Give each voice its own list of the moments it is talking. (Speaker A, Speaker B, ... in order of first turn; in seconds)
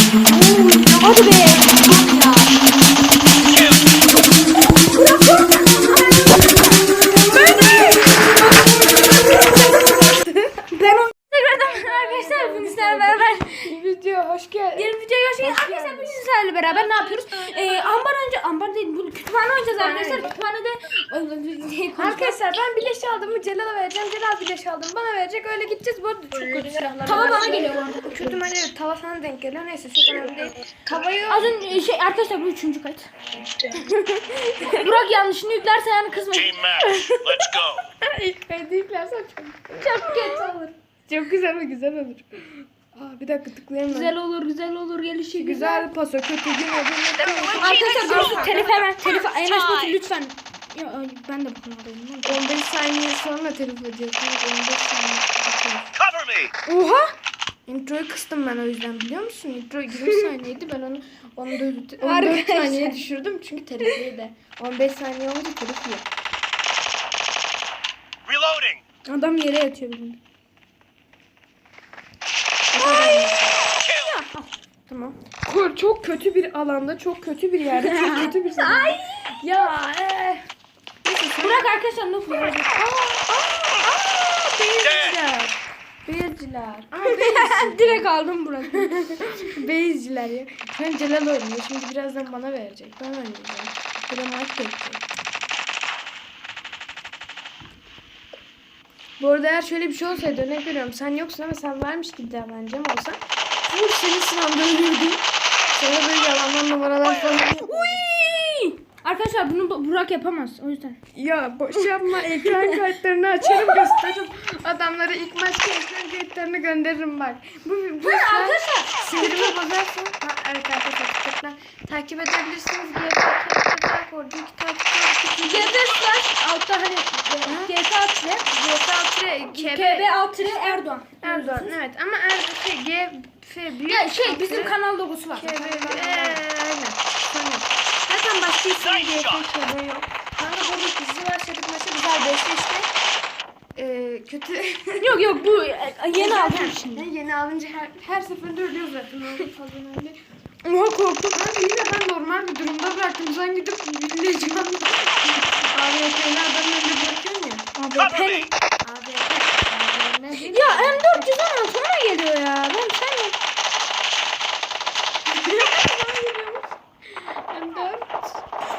Speaker A: 0.2-2.6, 8.4-10.7, 11.5-16.2, 19.8-20.3, 22.0-31.6, 34.6-34.9, 36.9-44.1, 45.3-48.7, 52.2-55.9, 57.6-66.0, 72.7-73.7, 75.4-80.5, 81.0-81.7, 82.8-88.0, 88.7-95.0, 99.2-108.0, 111.1-125.8, 127.4-127.7, 128.5-134.8, 135.3-142.9, 143.8-145.5, 146.1-150.2, 151.3-157.7, 158.8-161.3, 165.2-166.8, 167.5-168.4
Speaker B: 0.9-1.7, 5.0-6.0, 7.0-8.7, 10.7-13.7, 14.7-22.4, 27.0-28.4, 31.3-33.1, 33.8-36.6, 39.8-40.7, 43.9-45.9, 47.5-52.4, 56.6-57.1, 62.0-63.0, 69.0-70.2, 72.8-73.4, 74.0-75.2, 77.8-79.3, 81.4-82.9, 87.0-89.2, 107.6-111.0, 111.7-112.5, 113.7-114.1, 118.0-119.5, 125.4-128.4, 129.5-131.7, 133.9-136.4, 145.0-147.1, 150.6-151.4, 157.8-158.5, 160.5-163.4
Speaker C: 36.5-37.5, 47.2-50.0, 56.0-56.5, 68.3-68.8, 158.0-158.4